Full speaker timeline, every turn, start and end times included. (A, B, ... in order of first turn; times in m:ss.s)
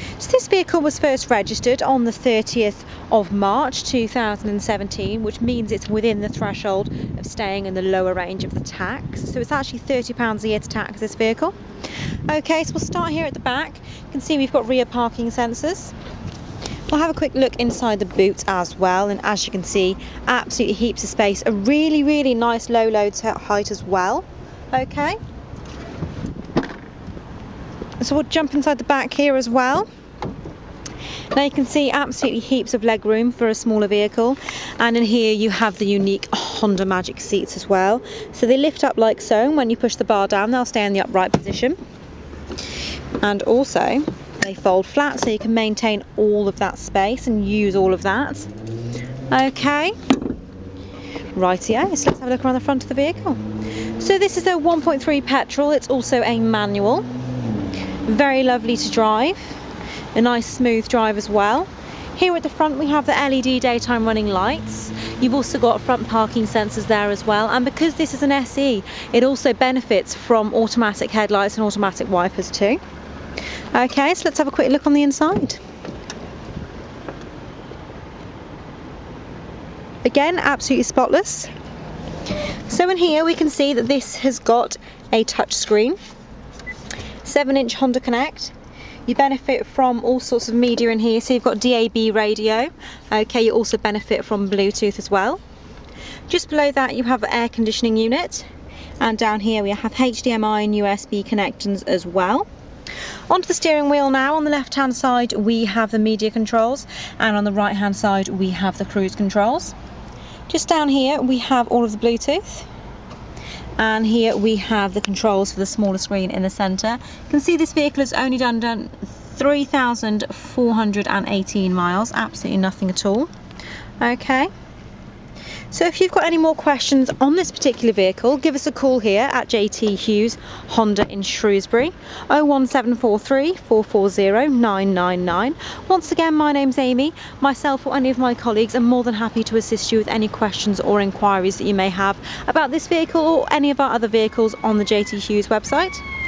0:00.2-0:11.6 A
0:12.3-0:15.9 A
0:16.9-0:25.2 A
0:28.0-0:29.9 A
0:31.3-0:41.8 A
0:43.2-0:48.5 A
0:49.3-0:49.9 A
0:51.4-0:53.4 A
0:54.0-0:57.0 A
0:58.1-0:59.6 A
1:00.2-1:12.8 A
1:13.7-1:15.6 A
1:20.0-1:21.5 A
1:22.7-1:26.0 A
1:27.2-1:28.5 A
1:29.1-1:35.4 A
1:36.3-1:38.5 A
1:39.0-1:42.5 A
1:43.3-1:49.8 A
1:50.5-1:52.7 A
1:53.8-2:03.3 A
2:04.0-2:04.5 A
2:05.7-2:26.0 A